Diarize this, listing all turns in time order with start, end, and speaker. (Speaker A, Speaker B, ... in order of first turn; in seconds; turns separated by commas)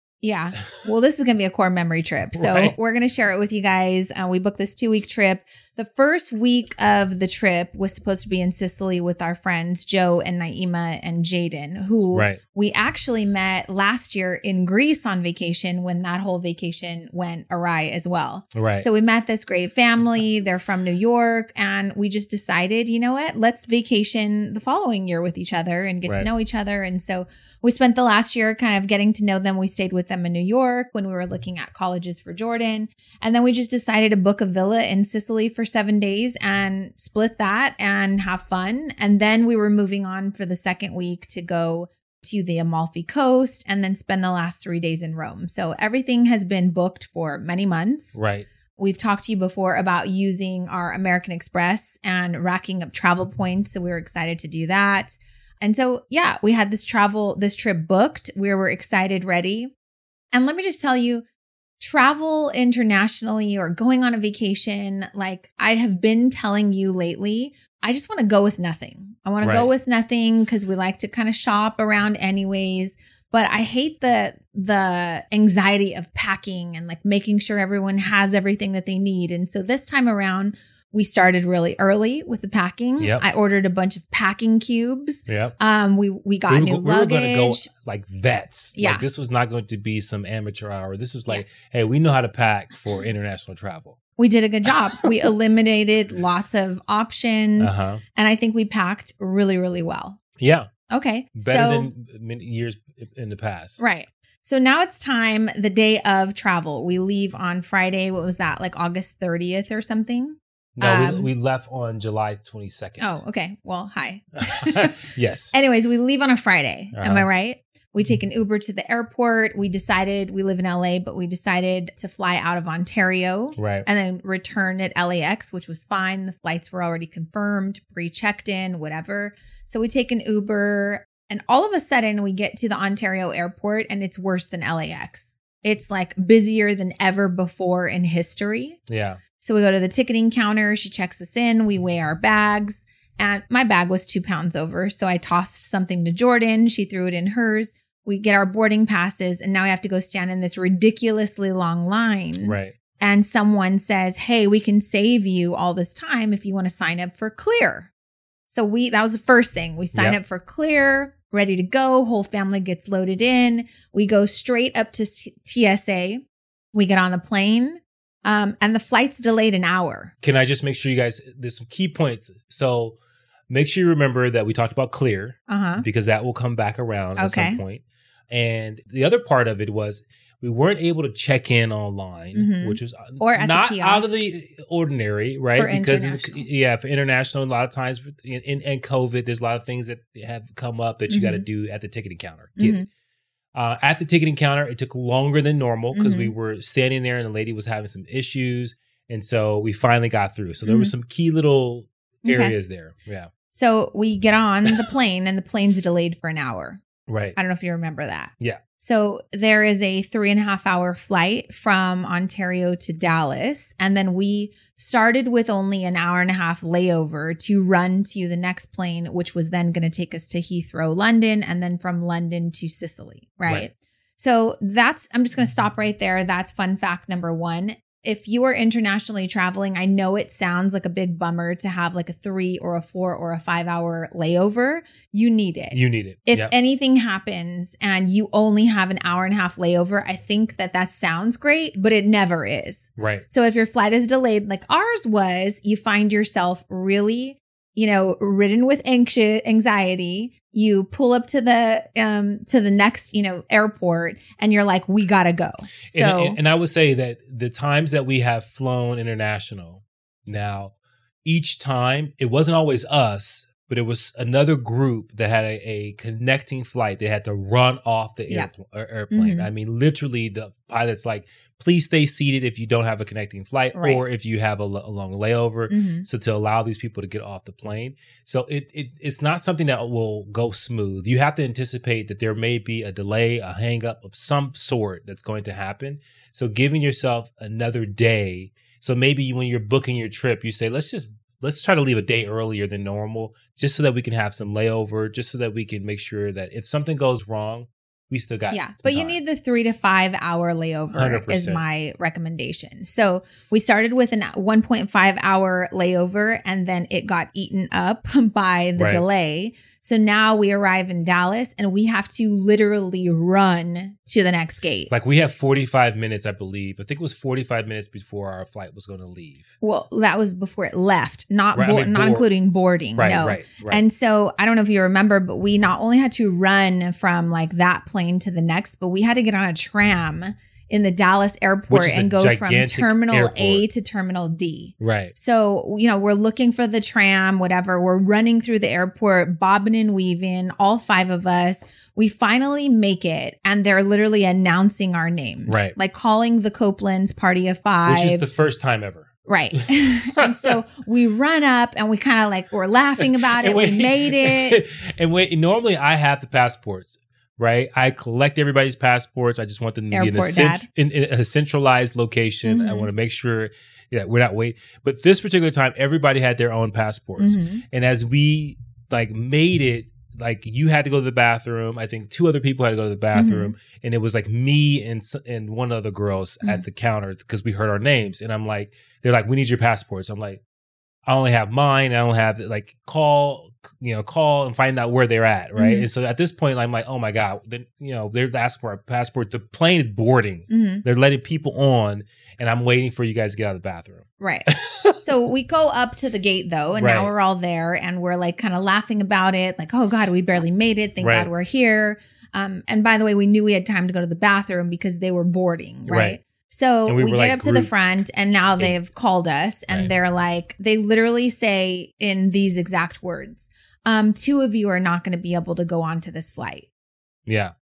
Speaker A: 0.2-48.2, Speaker B: 2.4-2.7, Speaker B: 12.1-12.4, Speaker B: 18.6-18.9, Speaker B: 48.1-48.5, Speaker A: 48.8-59.7, Speaker A: 60.3-61.2, Speaker A: 61.8-87.7, Speaker B: 69.4-69.7, Speaker B: 83.0-83.2, Speaker B: 85.3-85.5, Speaker B: 86.5-94.0, Speaker A: 88.8-89.0, Speaker A: 94.2-100.2, Speaker B: 97.6-98.0, Speaker B: 100.4-100.7, Speaker A: 100.9-101.9, Speaker B: 101.4-103.8, Speaker A: 103.8-111.3, Speaker B: 110.8-113.2, Speaker A: 113.0-114.9, Speaker B: 114.4-115.5, Speaker A: 115.5-138.8, Speaker B: 117.0-117.3, Speaker B: 123.6-123.9, Speaker B: 138.9-139.2, Speaker A: 139.4-157.9, Speaker B: 152.4-152.7, Speaker A: 158.5-170.1, Speaker B: 159.9-160.2, Speaker B: 170.2-173.0, Speaker B: 173.5-192.8, Speaker A: 175.5-175.8, Speaker A: 177.2-177.6, Speaker A: 182.3-184.2, Speaker A: 185.5-186.5, Speaker A: 191.1-191.4, Speaker A: 192.6-192.9, Speaker B: 193.5-203.3, Speaker A: 195.9-196.3, Speaker A: 200.7-200.9, Speaker A: 202.2-202.5, Speaker A: 203.5-206.8, Speaker B: 207.1-207.4, Speaker A: 207.4-256.4, Speaker B: 235.7-236.5, Speaker B: 243.0-243.2, Speaker B: 255.9-260.7, Speaker B: 261.2-299.2, Speaker A: 269.1-269.5, Speaker A: 273.7-274.0, Speaker A: 275.7-276.1, Speaker A: 298.5-314.9, Speaker B: 300.9-301.6, Speaker B: 308.8-309.0, Speaker B: 314.9-319.5, Speaker A: 319.6-348.2, Speaker B: 321.6-322.3, Speaker B: 323.0-323.8, Speaker B: 331.7-333.6, Speaker B: 334.8-335.1, Speaker B: 345.5-345.8, Speaker B: 347.9-350.5, Speaker A: 349.3-354.6, Speaker B: 353.0-380.4, Speaker A: 359.9-360.7, Speaker A: 362.4-362.9, Speaker A: 367.2-367.6, Speaker A: 373.1-373.6, Speaker B: 381.1-395.0, Speaker A: 385.6-385.9, Speaker A: 390.5-390.8, Speaker A: 394.2-394.5, Speaker A: 395.0-416.7, Speaker B: 396.8-397.1, Speaker B: 401.0-401.3, Speaker B: 405.9-406.2, Speaker B: 406.9-407.7, Speaker B: 417.3-417.5